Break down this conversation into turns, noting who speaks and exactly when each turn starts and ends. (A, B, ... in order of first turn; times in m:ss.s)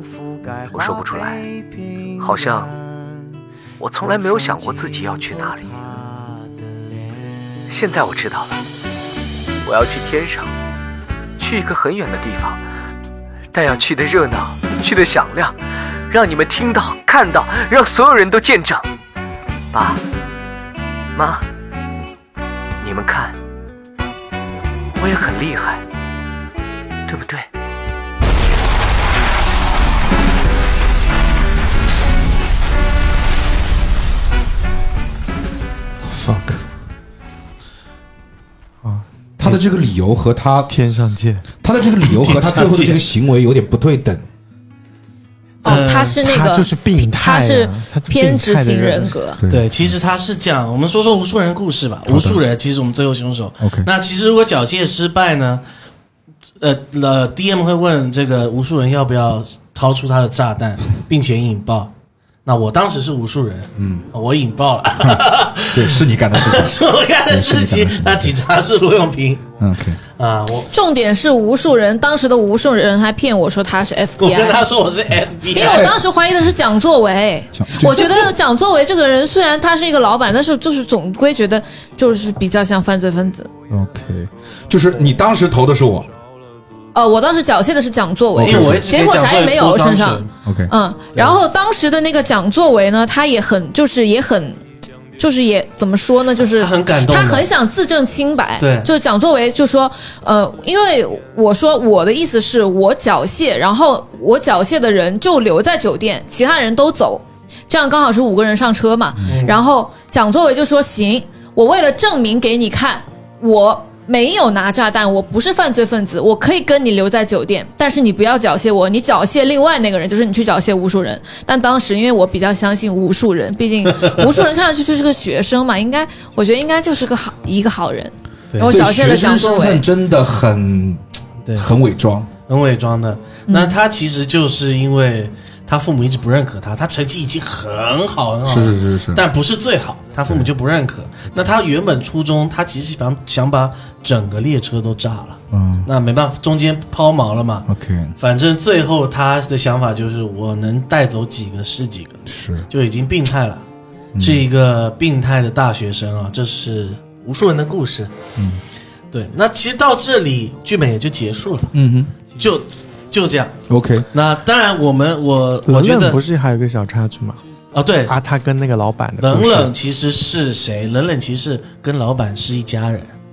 0:00.7-0:01.5 A
0:02.2-0:02.8 A
0:03.8-0:05.9 A
0:07.7-0:08.6 A
0:09.6-0:10.5 A
0:11.4-0:12.6 A
0:13.5-0:15.6 A
0:16.1-0:18.9 A
0:19.7-0:20.0 A
0:21.2-0:21.4 A
0:22.8-0:23.4 A
0:25.0-0:25.8 A
0:27.1-0:27.5 A
0:36.0-0:36.7 B
0:38.8-0:39.6 C
0:39.4-0:40.7 B
0:40.7-0:41.4 C
0:41.6-0:44.2 B
0:42.0-0:43.0 D
0:45.6-0:46.2 D
0:45.6-0:49.4 E
0:46.2-0:49.1 C
0:49.4-0:50.0 B
0:49.5-0:55.6 D
0:52.1-0:52.4 B
0:53.6-0:53.9 B
0:56.6-1:01.9 D
1:02.5-1:09.4 D
1:03.8-1:04.1 B
1:05.0-1:08.4 B
1:09.6-1:10.0 B
1:10.2-1:10.7 D
1:10.7-1:14.6 E
1:14.2-1:15.9 D
1:15.5-1:23.5 E
1:15.6-1:16.0 B
1:17.5-1:18.1 B
1:23.7-1:26.1 B
1:26.9-1:34.6 E
1:28.4-1:28.9 B
1:28.4-1:30.3 D
1:30.4-1:30.7 B
1:31.1-1:31.4 D
1:35.2-2:09.8 E
1:36.6-1:37.5 D
1:38.6-1:38.9 D
1:49.3-1:49.6 D
2:08.5-2:08.8 D
2:08.7-2:11.0 B
2:11.6-2:12.3 B
2:12.5-2:27.7 D
2:13.5-2:13.8 E
2:18.4-2:19.2 B
2:25.5-2:25.9 B
2:27.7-2:28.2 B
2:28.2-2:33.6 D
2:32.3-2:32.7 B
2:34.2-2:34.4 B
2:34.2-2:38.1 D
2:38.4-2:38.6 B
2:39.1-2:41.7 D
2:41.7-2:42.1 B
2:42.4-2:43.6 D
2:43.7-2:44.1 B
2:44.1-2:46.2 D
2:45.7-2:47.4 C
2:47.7-2:48.2 D
2:48.1-2:49.7 C
2:49.2-2:53.1 D